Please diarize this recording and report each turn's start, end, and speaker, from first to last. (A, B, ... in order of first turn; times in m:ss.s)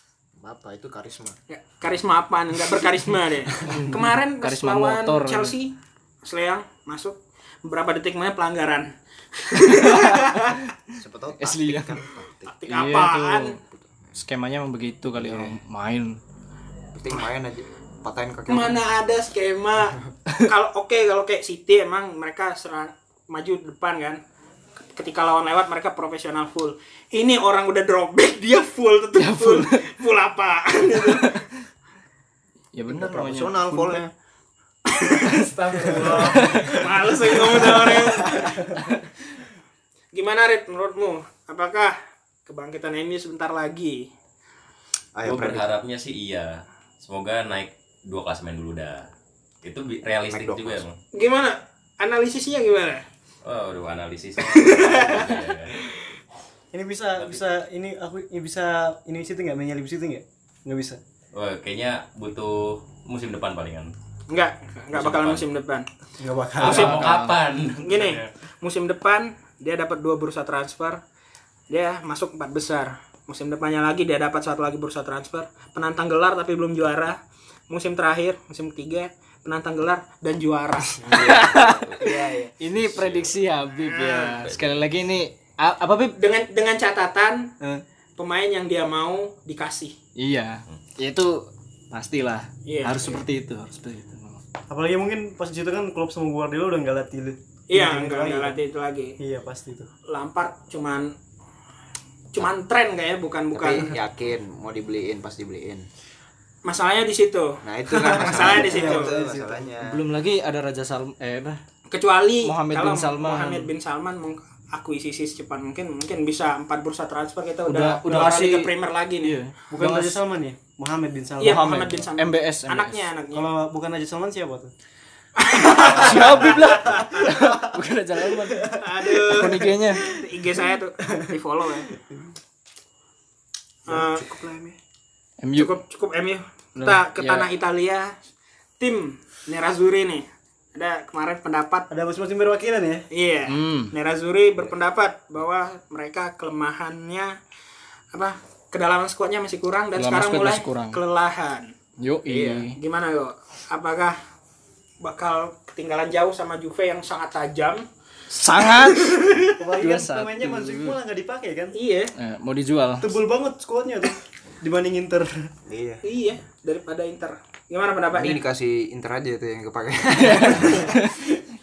0:00.4-0:01.4 A
0:01.5-0:10.6 B
0:03.6-0:05.5 C
0:09.8-0:10.3 C
0:11.0-0:12.5 A
0:11.4-0:12.0 C
0:12.4-0:13.6 B
0:12.7-0:13.5 C
0:13.6-0:14.2 A
0:14.1-0:16.2 C
0:15.2-0:15.6 A
0:16.9-0:18.8 A
0:18.5-0:24.2 B
0:24.9-0:31.4 B
0:29.2-0:29.9 C
0:31.0-0:31.5 C
0:32.7-0:34.0 C
0:32.9-0:34.1 A
0:34.9-0:38.7 B
0:35.0-0:39.0 C
0:35.8-0:36.9 D
0:40.1-0:44.1 B
0:45.2-0:45.7 A
0:45.2-0:49.0 E
0:49.6-0:51.0 E
0:50.3-0:50.8 A
0:51.1-0:53.0 B
0:53.4-0:55.8 E
0:54.4-0:55.3 B
0:56.7-1:01.0 D
1:01.3-1:03.9 E
1:04.3-1:05.9 B
1:04.9-1:05.5 E
1:06.2-1:07.0 D
1:06.6-1:08.3 E
1:06.6-1:07.4 C
1:07.8-1:11.0 B
1:11.7-1:17.2 B
1:17.7-1:21.2 B
1:21.0-1:23.1 A
1:21.1-1:22.0 C
1:22.6-1:26.1 C
1:23.0-1:23.3 E
1:23.8-1:24.4 B
1:24.4-1:24.7 E
1:26.2-1:27.5 B
1:28.2-1:30.0 B
1:30.2-1:34.4 C
1:32.6-1:33.2 B
1:34.7-1:38.6 D
1:37.7-1:39.2 B
1:39.2-1:39.9 D
1:40.1-1:41.1 B
1:42.3-1:43.9 B
1:43.5-1:45.9 A
1:46.6-1:49.1 B
1:47.6-1:50.0 A
1:48.0-1:49.7 D
1:49.8-1:51.6 C
1:51.9-1:59.4 B
1:52.4-1:53.7 C
1:57.7-1:58.7 C
1:59.2-2:00.2 C
1:59.7-2:01.9 D
2:01.4-2:03.5 B
2:01.4-2:03.0 C
2:03.3-2:04.7 D
2:05.4-2:07.3 B
2:05.6-2:10.0 C
2:08.7-2:11.9 B
2:13.9-2:14.2 B
2:13.9-2:14.8 A
2:15.4-2:15.7 C
2:15.5-2:18.2 B
2:16.8-2:17.5 C
2:18.8-2:21.9 B
2:21.9-2:23.1 D
2:23.1-2:27.4 B
2:23.5-2:23.9 C
2:28.1-2:31.7 B
2:30.0-2:31.0 C
2:32.0-2:32.8 C
2:32.3-2:32.7 A
2:32.8-2:34.2 B
2:35.0-2:37.8 B
2:38.3-2:41.0 C
2:38.9-2:39.5 B
2:39.6-2:41.7 D
2:41.7-2:42.1 B
2:42.2-2:43.1 C
2:43.0-2:45.5 D
2:45.7-2:46.0 A
2:46.0-2:48.4 B
2:48.1-2:51.0 A
2:50.2-2:51.1 C